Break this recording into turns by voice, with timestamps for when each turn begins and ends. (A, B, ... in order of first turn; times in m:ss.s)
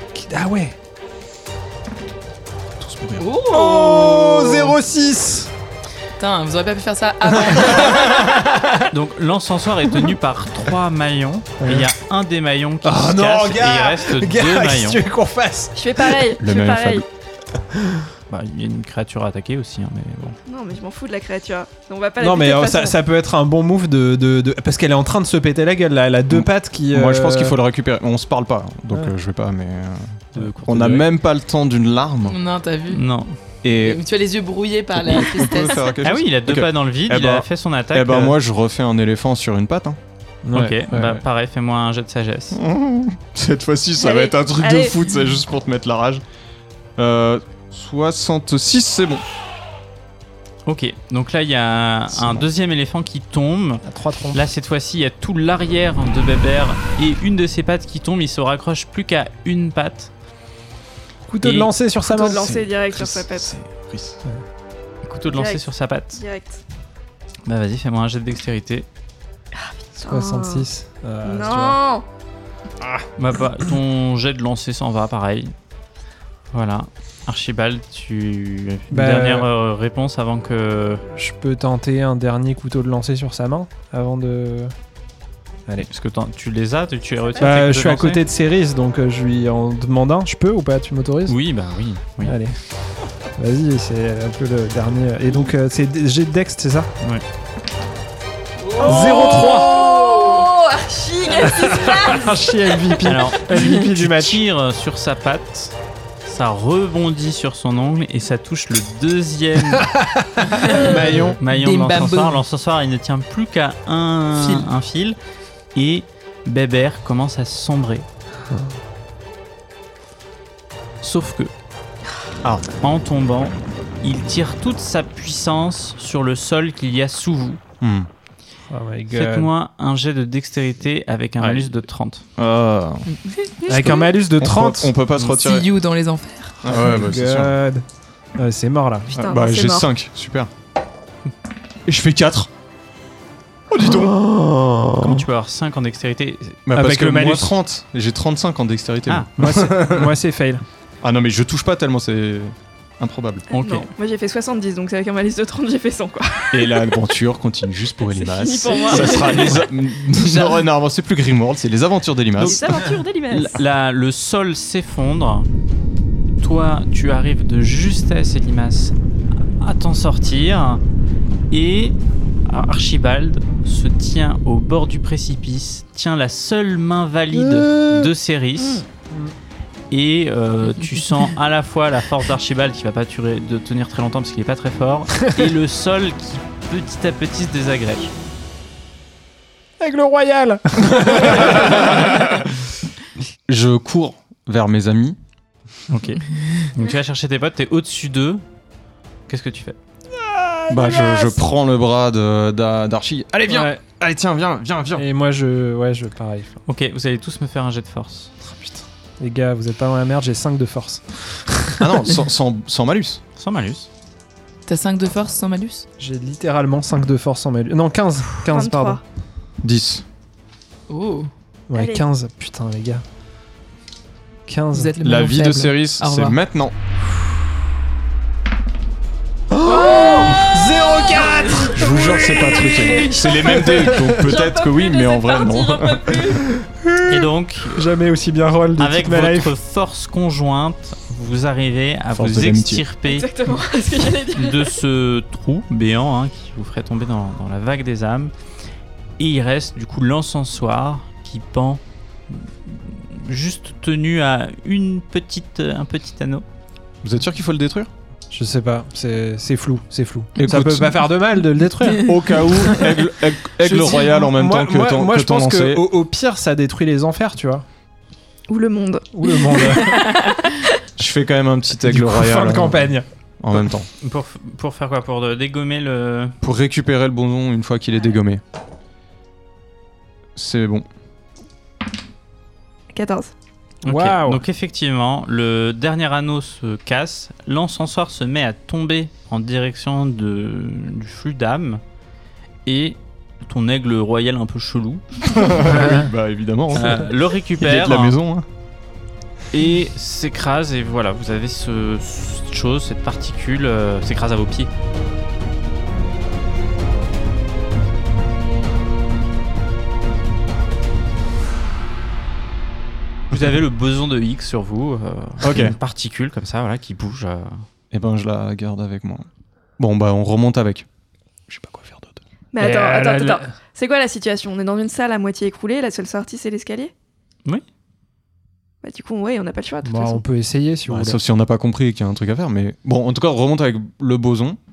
0:00.1-0:00.8 A
0:02.8-0:03.4 B
0:03.2-0:04.6 C
0:03.5-0:05.5 A
0:06.2-0:08.3 C
0:08.9-0:15.0 D
0:11.6-0:11.9 A
0:12.8-0:16.3 A
0:15.8-0:17.1 E
0:16.4-0:17.1 B
0:17.8-0:18.1 A
0:18.3-0:20.4 D
0:20.5-0:23.0 E
0:22.2-0:27.6 A
0:26.3-0:32.4 B
0:30.3-0:31.1 D
0:32.3-0:33.0 C
0:32.9-0:33.3 D
0:33.6-0:34.0 B
0:33.8-0:35.9 C
0:35.0-0:40.0 B
0:36.0-0:38.4 D
0:40.4-0:41.2 A
0:40.5-0:42.6 D
0:42.5-0:46.2 B
0:44.0-0:44.9 E
0:47.0-0:49.2 B
0:50.7-1:00.1 D
0:53.8-0:54.4 A
1:01.2-1:02.5 A
1:01.4-1:01.7 D
1:02.1-1:03.5 E
1:02.3-1:04.2 B
1:05.0-1:06.2 D
1:05.3-1:06.6 E
1:07.5-1:08.9 D
1:09.6-1:10.7 E
1:10.0-1:11.8 A
1:11.2-1:12.1 E
1:13.2-1:15.5 D
1:16.5-1:21.0 D
1:18.9-1:19.5 A
1:21.1-1:24.7 A
1:25.8-1:28.2 D
1:27.4-1:31.4 A
1:31.3-1:32.4 D
1:32.2-1:32.6 A
1:33.4-1:36.9 A
1:38.7-1:39.0 C
1:38.8-1:40.2 A
1:38.8-1:42.4 E
1:41.4-1:44.4 A
1:43.0-1:49.9 D
1:49.8-1:51.4 A
1:50.6-1:52.4 C
1:50.7-1:55.2 D
1:54.4-1:54.7 C
1:55.8-1:58.1 D
1:58.5-1:58.8 A
2:01.0-2:01.5 D
2:02.8-2:07.6 D
2:07.8-2:08.1 B
2:08.7-2:09.5 A
2:09.1-2:12.2 D
2:11.4-2:11.7 B
2:12.4-2:13.1 B
2:13.1-2:13.8 C
2:13.7-2:15.0 A
2:13.7-2:15.7 B
2:15.2-2:16.7 C
2:16.6-2:17.6 B
2:16.7-2:17.8 A
2:18.4-2:19.2 A
2:19.1-2:19.9 E
2:19.2-2:20.5 B
2:21.9-2:22.5 B
2:23.7-2:24.5 B
2:25.0-2:26.6 D
2:26.7-2:30.1 B
2:26.7-2:27.6 A
2:29.4-2:30.6 A
2:31.0-2:33.5 B
2:33.5-2:37.0 E
2:33.5-2:33.9 D
2:36.5-2:42.6 B
2:38.0-2:39.7 E
2:42.4-2:43.6 E
2:42.4-2:45.5 D
2:46.4-2:50.8 D
2:51.5-2:58.8 D
2:57.3-2:58.1 A
2:58.6-2:58.8 E
2:59.9-3:08.1 D
3:09.8-3:12.3 A
3:11.0-3:12.4 B
3:13.5-3:15.2 B
3:15.9-3:18.4 D
3:19.3-3:19.8 D
3:20.1-3:21.4 A
3:20.7-3:25.0 B
3:23.5-3:23.8 A
3:25.0-3:26.6 A
3:26.7-3:28.3 D
3:28.5-3:31.8 A
3:31.8-3:33.2 B
3:33.4-3:33.9 D
3:34.7-3:35.9 C
3:36.0-3:39.0 A
3:38.5-3:39.0 E
3:39.6-3:40.0 B
3:40.9-3:41.3 C
3:41.7-3:43.0 A
3:41.7-3:42.0 E
3:44.5-3:45.0 A
3:44.7-3:46.4 C
3:45.0-3:46.7 B
3:49.5-3:51.9 A
3:49.6-3:56.5 E
3:51.7-3:56.4 B
3:53.3-3:54.1 A
3:56.7-3:59.6 A
3:57.1-3:57.9 D
3:58.8-4:03.3 D
4:02.1-4:02.8 B
4:03.1-4:04.8 E
4:04.3-4:08.3 D
4:09.2-4:16.4 D
4:17.0-4:17.9 B
4:18.3-4:22.4 A
4:20.4-4:21.1 B
4:21.9-4:25.9 B
4:23.7-4:24.0 C
4:23.8-4:27.7 A
4:28.5-4:30.0 E
4:29.1-4:30.1 A
4:30.0-4:30.4 C
4:31.0-4:33.9 B
4:31.8-4:33.0 A
4:34.0-4:36.4 D
4:36.4-4:38.4 B
4:40.4-4:40.9 B
4:42.9-4:43.3 E
4:43.8-4:44.4 A
4:43.8-4:51.8 D
4:52.7-4:55.6 D
4:55.3-4:58.5 B
4:55.7-4:56.0 A
4:56.7-4:58.2 D
4:59.5-5:04.7 D
5:13.3-5:17.6 D
5:15.4-5:15.8 B
5:17.9-5:19.3 B
5:19.8-5:20.9 B
5:21.5-5:22.2 B
5:22.5-5:26.9 E
5:22.6-5:23.5 A
5:28.8-5:30.2 E
5:29.8-5:31.2 A
5:30.9-5:34.6 B